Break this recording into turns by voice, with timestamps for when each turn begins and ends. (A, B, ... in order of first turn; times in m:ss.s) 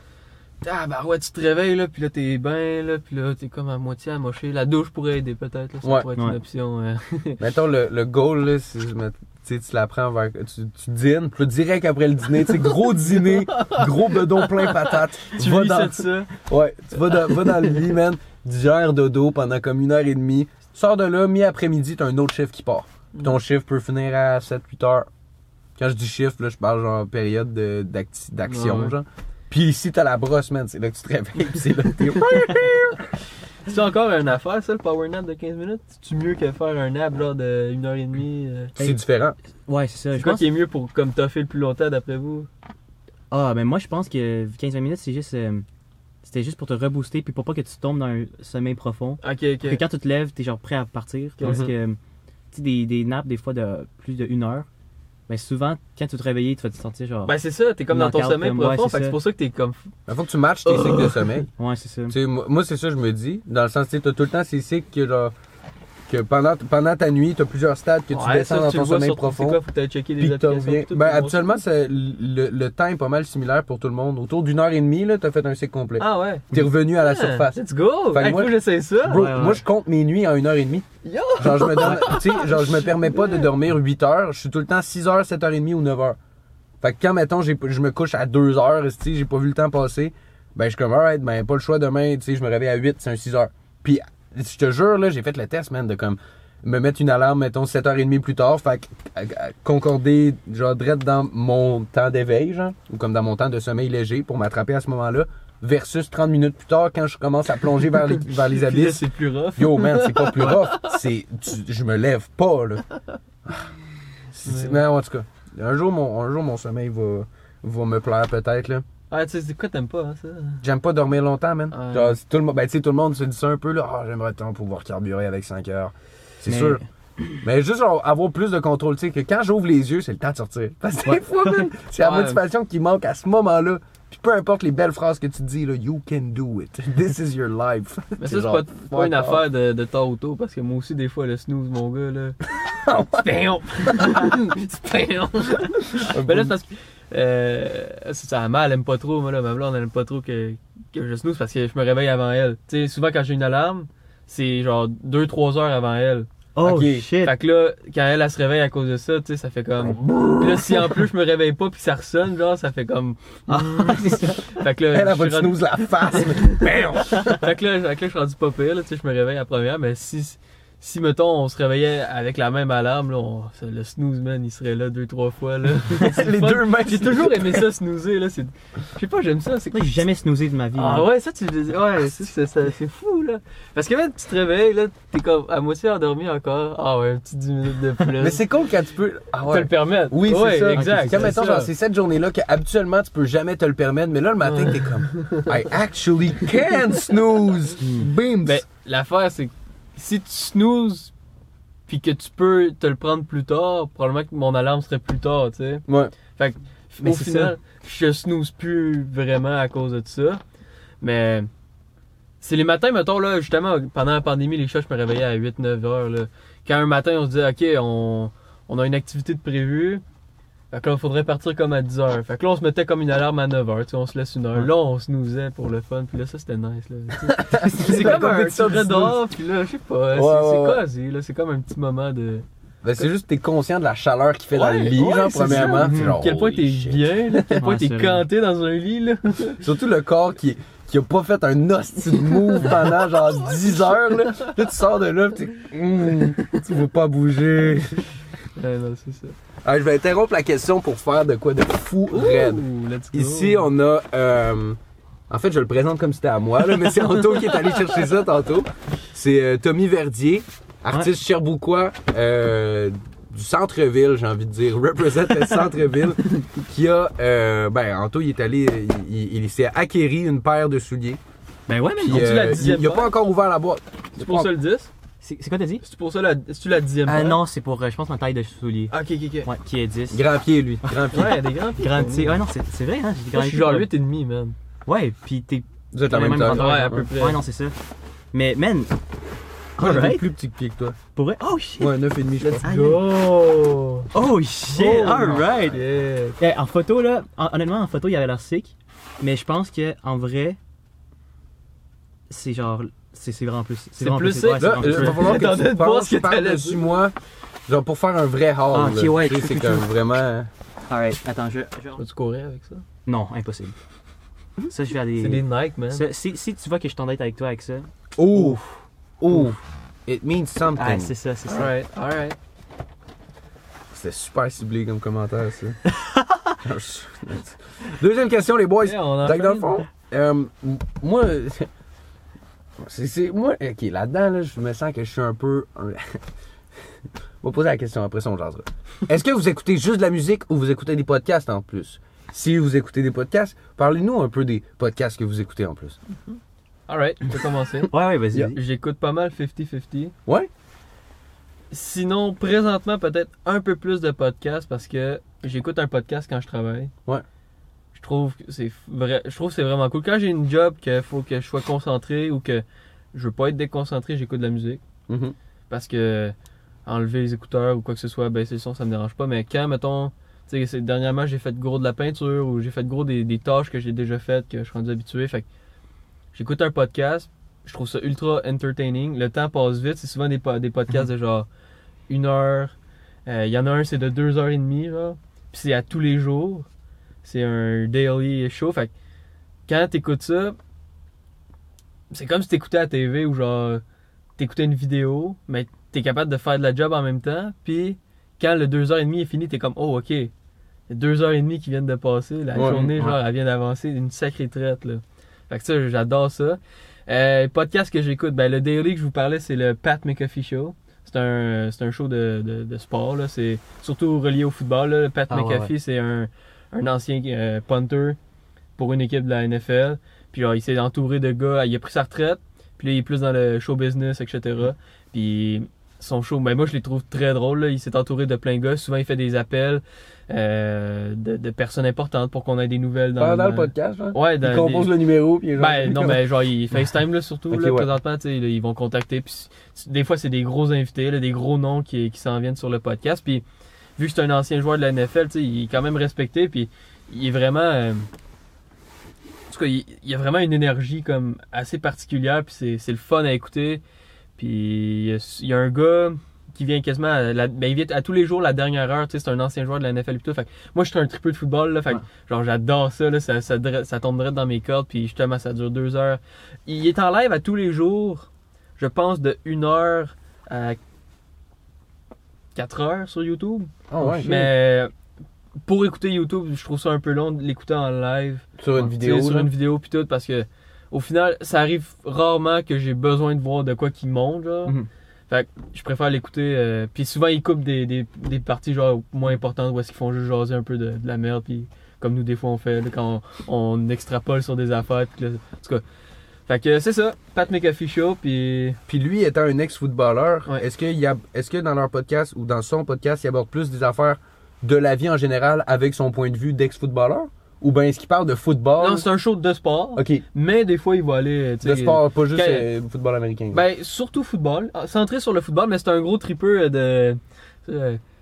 0:00.6-0:07.4 A
0:07.4-0:25.1 B
0:13.1-0:16.3 A
0:17.0-0:17.8 A
0:25.8-0:33.0 B
0:28.5-0:29.0 A
0:32.2-0:33.0 A
0:33.6-0:38.7 A
0:38.8-0:39.4 B
0:39.7-0:40.5 C
0:40.2-0:42.5 A
0:43.3-0:45.6 C
0:46.2-0:52.0 C
0:49.2-0:49.8 A
0:51.4-0:51.7 A
0:51.4-0:51.7 B
0:52.5-0:54.7 C
0:55.3-0:57.4 C
0:57.3-0:59.9 A
0:57.9-0:59.2 C
1:00.1-1:01.5 B
1:00.7-1:01.4 A
1:01.6-1:02.2 C
1:02.1-1:05.3 B
1:06.1-1:09.6 B
1:08.1-1:11.4 A
1:10.2-1:26.2 B
1:16.0-1:19.4 A
1:19.1-1:19.6 C
1:21.0-1:23.5 A
1:21.8-1:22.1 C
1:26.8-1:52.8 B
1:48.4-1:51.0 A
1:54.4-1:58.8 B
1:54.4-1:54.8 A
1:59.1-2:00.6 A
2:00.6-2:06.8 B
2:01.7-2:02.2 A
2:06.5-2:07.3 C
2:07.4-2:19.4 B
2:11.1-2:11.7 C
2:12.0-2:12.4 A
2:18.2-2:22.4 A
2:22.6-2:23.3 B
2:22.9-2:36.3 A
2:23.9-2:24.4 B
2:26.0-2:26.5 B
2:36.6-2:37.4 C
2:36.6-2:37.1 B
2:37.2-3:00.0 A
2:39.8-2:41.0 B
2:43.5-2:44.4 C
2:44.9-2:47.5 B
2:55.9-2:57.7 B
2:59.7-3:01.1 C
3:00.8-3:08.4 A
3:08.2-3:18.6 B
3:09.5-3:11.7 A
3:10.7-3:11.4 C
3:14.4-3:15.5 A
3:17.8-3:18.1 C
3:18.4-3:21.1 A
3:21.9-3:30.4 A
3:25.9-3:26.1 B
3:27.0-3:27.6 C
3:31.0-3:31.5 A
3:32.4-3:40.0 A
3:40.7-3:52.4 A
3:47.3-3:49.2 B
3:47.6-3:48.3 C
3:50.1-3:50.8 B
3:52.8-3:57.6 B
3:54.5-3:59.6 A
3:55.5-3:56.2 C
3:57.6-3:58.3 C
3:59.6-4:08.0 B
4:02.6-4:02.9 A
4:03.5-4:04.5 A
4:08.6-4:09.4 A
4:09.6-4:14.8 B
4:12.1-4:13.7 A
4:15.3-4:31.2 B
4:17.2-4:17.9 A
4:31.7-4:32.5 C
4:32.0-4:34.5 B
4:32.1-4:33.1 A
4:34.2-4:34.9 A
4:35.2-4:35.8 C
4:35.8-4:37.4 A
4:37.0-4:40.2 C
4:38.9-4:39.5 A
4:40.1-4:41.4 B
4:40.8-4:43.9 C
4:41.1-4:42.4 A
4:43.3-4:44.6 A
4:44.9-4:47.8 C
4:45.9-4:47.0 B
4:46.5-4:47.4 A
4:48.3-4:48.9 C
4:49.8-4:50.3 C
4:49.8-4:51.0 B
4:51.2-4:51.9 C
4:51.8-4:52.6 B
4:52.4-4:54.1 A
4:52.6-4:53.0 C
4:54.1-4:55.8 C
4:54.7-4:56.4 A
4:56.4-5:00.6 C
5:02.3-5:05.4 C
5:04.0-5:06.9 A
5:04.6-5:07.1 B
5:07.7-5:10.5 B
5:08.7-5:09.9 C
5:10.9-5:12.0 C
5:12.0-5:12.8 A
5:13.1-5:13.8 C
5:14.7-5:18.6 C
5:15.2-5:16.1 A
5:18.2-5:18.6 B
5:19.2-5:21.1 B
5:20.8-5:21.7 C
5:21.5-5:22.4 A
5:23.9-5:25.8 B
5:25.9-5:26.6 C
5:26.6-5:31.7 B
5:28.8-5:29.7 A
5:32.8-5:36.2 B
5:37.4-5:46.0 B
5:46.9-5:47.9 A
5:47.9-5:48.6 C
5:48.5-5:50.1 A
5:51.7-5:56.9 A
5:58.0-6:04.8 A
6:05.1-6:05.4 B
6:05.7-6:06.4 A
6:06.9-6:15.5 A
6:16.3-6:21.5 A
6:22.1-6:22.8 A
6:23.3-6:26.7 A
6:27.2-6:28.9 A
6:29.7-6:30.6 A
6:32.1-6:33.8 A
6:34.4-6:40.3 A
6:40.9-6:58.2 A
6:42.6-6:42.9 B
6:42.7-6:43.2 C
6:55.3-6:55.7 C
6:58.8-7:14.9 A
7:13.2-7:16.2 B
7:15.6-7:23.4 A
7:17.5-7:17.9 B
7:24.0-7:28.1 A
7:29.5-7:33.8 A
7:34.4-7:50.8 A
7:52.6-7:54.9 A
7:53.9-7:54.4 B
7:54.0-7:54.5 C
7:55.6-8:04.8 A
7:58.6-7:59.5 B
8:05.3-8:15.8 A
8:16.5-8:18.8 A
8:18.9-8:29.1 B
8:28.8-8:32.7 A
8:30.0-8:30.2 B
8:31.6-8:33.6 B
8:33.5-8:38.0 A